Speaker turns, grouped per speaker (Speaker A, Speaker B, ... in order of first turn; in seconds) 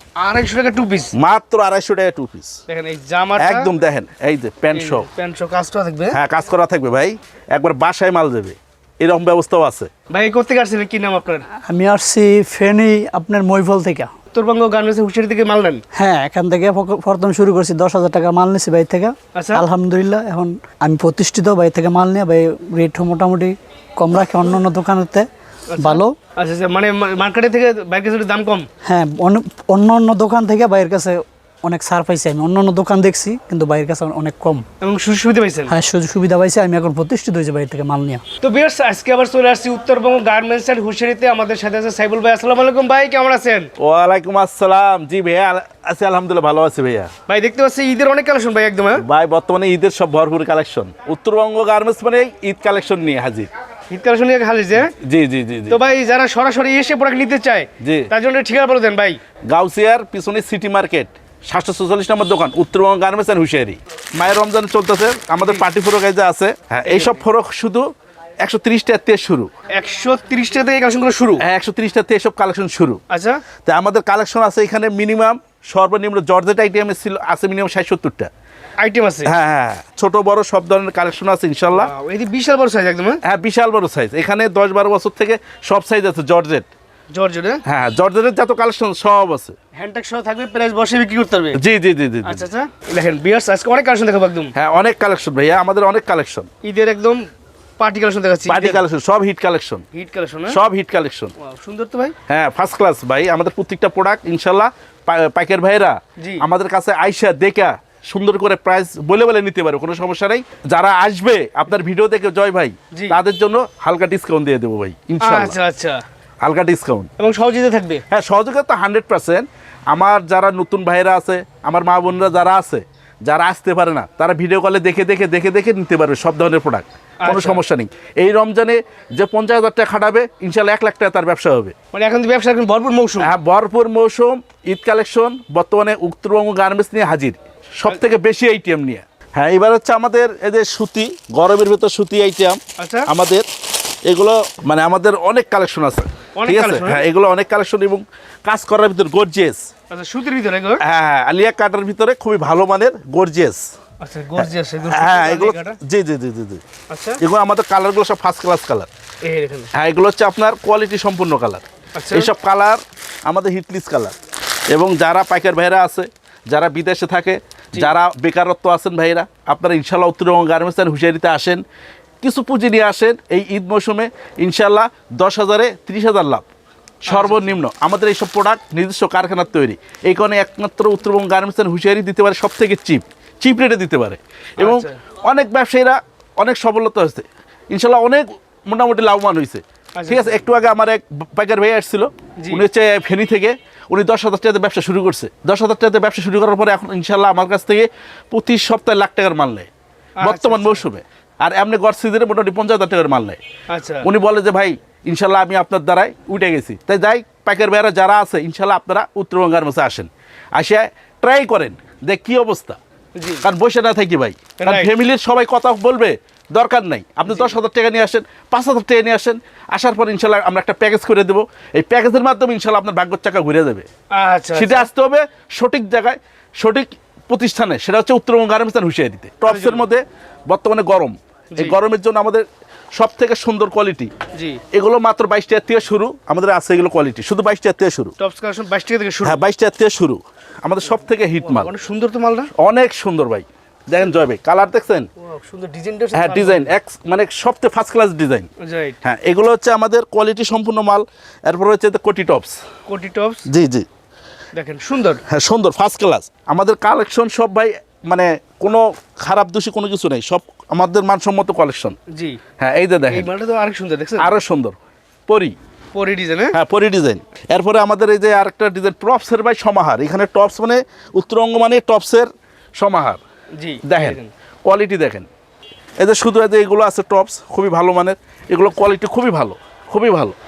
Speaker A: 0.2-1.1, 2.7-3.7, 4.7-6.2, 10.1-11.5, 14.3-15.8, 19.3-19.6, 25.7-28.7, 34.8-35.7, 38.4-43.7, 47.3-49.0, 53.9-54.9, 55.7-59.2, 66.9-67.2, 69.7-71.4, 73.1-73.4, 78.8-79.3, 81.7-83.2, 87.1-87.6, 89.8-91.6, 92.2-94.5, 96.6-97.3, 97.8-98.8, 99.9-100.6, 101.4-102.2, 106.2-106.4, 112.9-113.2, 115.2-116.0, 117.2-118.0, 127.2-127.6, 131.9-133.3, 142.8-143.1, 146.4-147.1, 149.9-150.8, 154.0-155.8, 156.9-157.2, 159.2-159.7, 162.0-162.3, 177.1-177.6, 184.6-185.0, 190.0-190.3, 192.4-192.7, 200.2-200.8, 203.7-204.1, 213.2-213.4, 214.6-214.9, 217.3-217.6, 224.1-224.9, 229.4-229.9, 234.3-234.6, 238.2-239.4, 241.4-242.5, 245.2-246.7, 248.6-249.0, 252.9-253.4, 254.5-255.2, 262.1-262.4, 263.1-264.4, 265.9-266.6, 273.6-274.3
Speaker B: 1.1-2.6, 3.4-5.1, 6.1-9.9, 43.8-47.1, 49.0-53.5, 55.0-55.8, 57.8-58.1, 59.5-67.8, 68.4-69.5, 71.4-73.0, 73.7-78.3, 79.2-81.9, 83.2-86.7, 87.7-89.5, 91.5-92.5, 94.5-96.5, 98.5-99.8, 100.5-101.3, 102.3-115.6, 116.4-117.1, 118.1-131.8, 133.2-143.5, 144.1-149.7, 150.8-153.6, 154.4-156.6, 157.2-158.9, 159.7-164.2, 164.7-171.6, 172.2-176.5, 177.1-199.7, 200.2-203.4, 204.0-212.8, 213.4-223.9, 224.6-234.1, 234.7-238.1, 239.2-241.7, 242.5-245.1, 246.1-248.5, 249.0-252.6, 253.5-253.9, 255.3-262.0, 262.6-263.3, 264.2-265.6, 266.5-273.2, 273.8-275.3, 276.0-280.4
Speaker C: 11.5-14.1, 15.9-25.3, 25.8-26.2, 28.9-34.7, 35.7-38.2